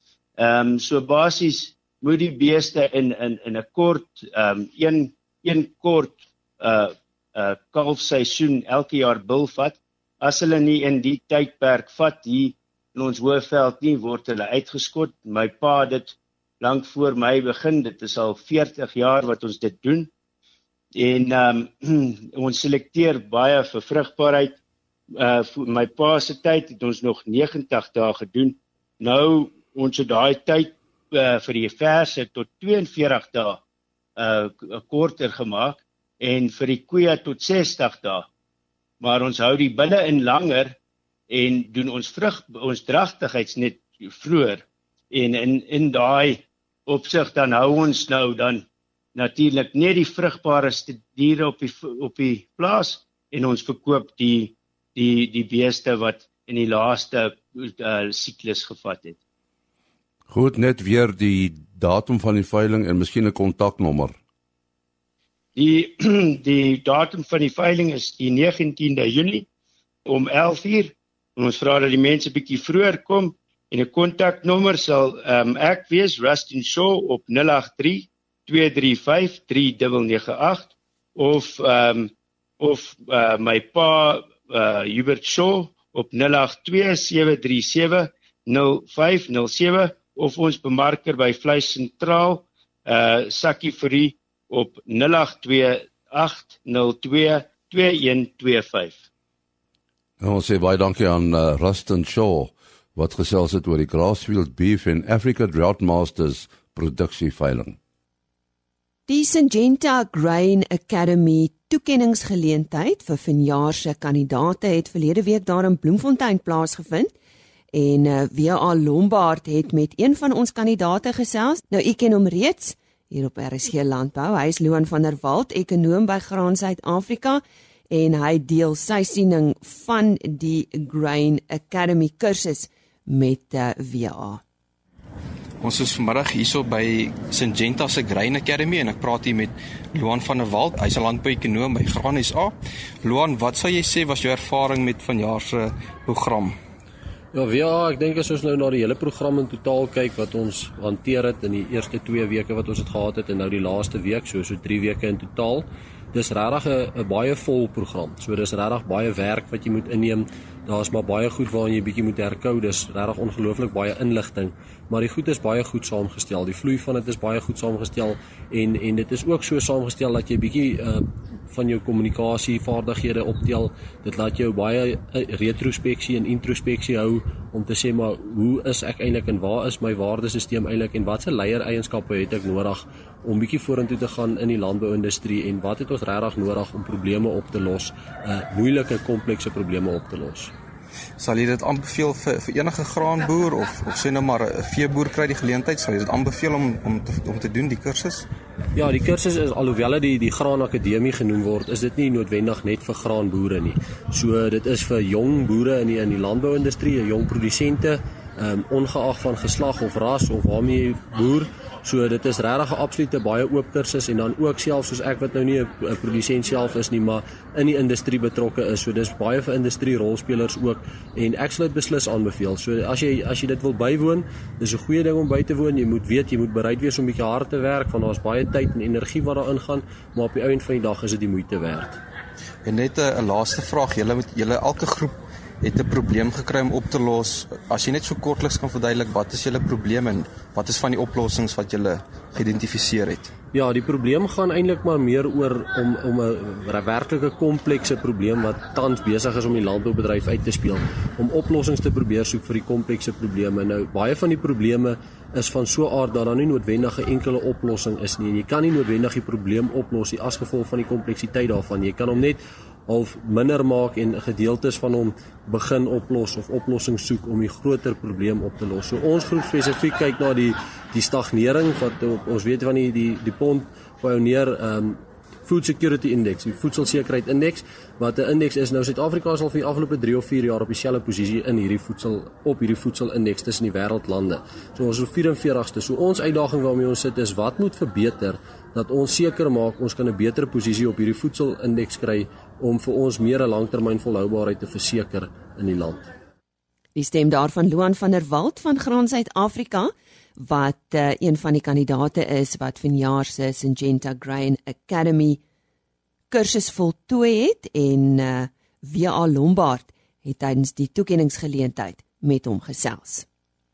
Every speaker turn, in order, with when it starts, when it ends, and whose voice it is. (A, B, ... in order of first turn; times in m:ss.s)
0:00.4-0:20.1 A
0:21.0-0:24.6 A
0:25.1-0:33.6 A
0:34.2-0:38.3 A
0:39.0-0:40.7 A
0:41.3-0:59.2 A
1:00.3-1:04.1 B
1:05.6-1:09.4 A
1:10.0-1:39.0 A
1:40.2-1:47.8 B
1:49.1-1:57.1 C
1:57.7-2:14.4 C
2:15.6-2:26.6 D
2:27.3-3:10.5 E
3:11.2-3:18.3 D
3:18.7-3:52.0 E
3:52.6-4:03.3 D
4:03.5-4:56.1 E
4:56.9-5:05.4 C
5:06.3-5:13.2 C